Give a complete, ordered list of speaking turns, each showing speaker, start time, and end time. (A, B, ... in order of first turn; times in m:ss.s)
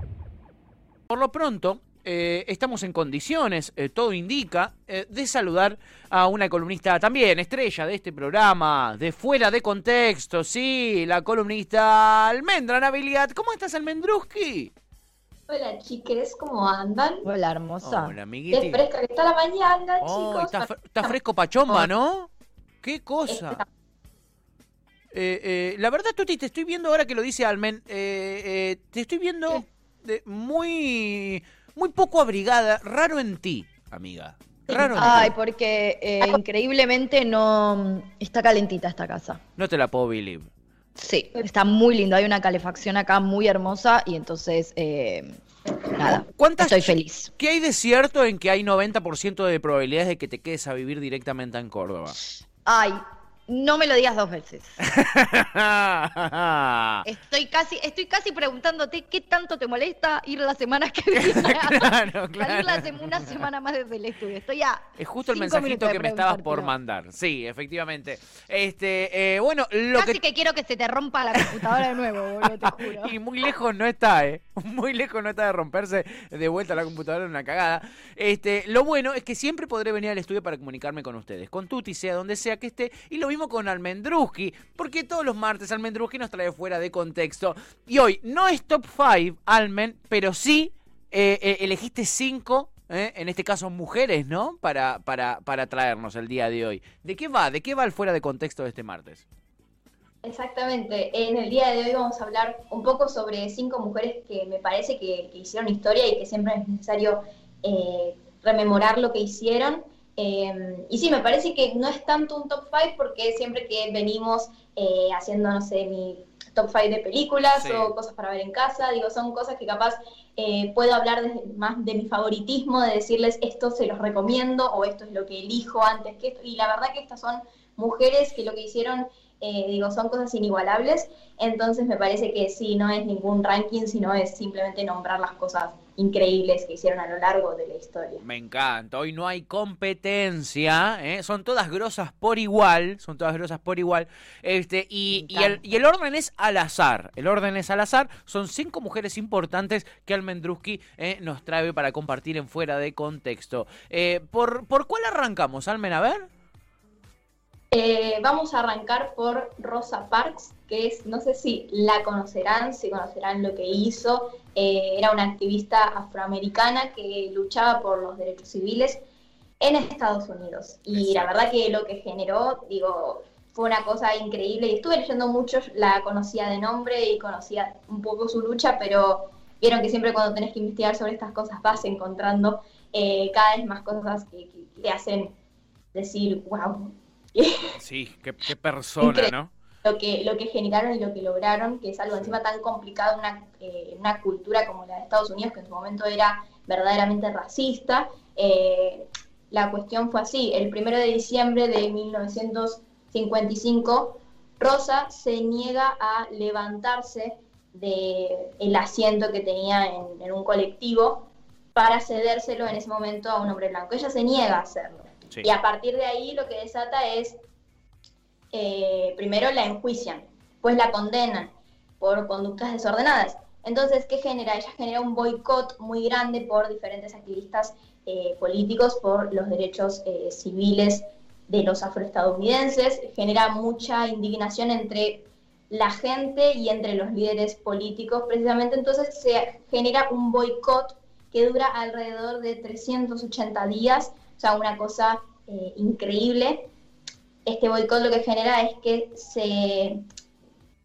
0:01.1-0:14.7 A
0:15.5-0:17.3 B
0:17.2-0:18.1 C
0:17.8-0:18.8 A
0:18.5-0:21.2 B
0:20.0-0:22.3 A
0:22.8-0:23.6 A
0:23.3-0:23.7 B
0:25.1-0:35.3 A
0:34.7-0:35.2 B
0:34.9-0:39.4 C
0:39.6-0:40.5 A
0:41.0-0:47.3 C
0:46.1-0:52.2 A
0:52.6-0:54.8 C
0:54.9-0:57.0 A
0:57.0-1:06.7 C
1:01.1-1:03.4 A
1:05.0-1:10.2 A
1:09.9-1:13.2 C
1:11.3-1:39.2 A
1:40.2-2:18.2 B
1:57.5-1:57.9 A
2:18.2-2:36.3 A
2:25.1-2:25.6 C
2:37.7-2:49.0 B
2:49.6-3:05.3 B
2:50.9-2:51.3 A
3:05.9-3:07.7 B
3:07.8-3:09.5 A
3:09.0-3:37.4 B
3:12.1-3:12.4 A
3:38.5-4:06.7 B
4:07.4-4:10.0 B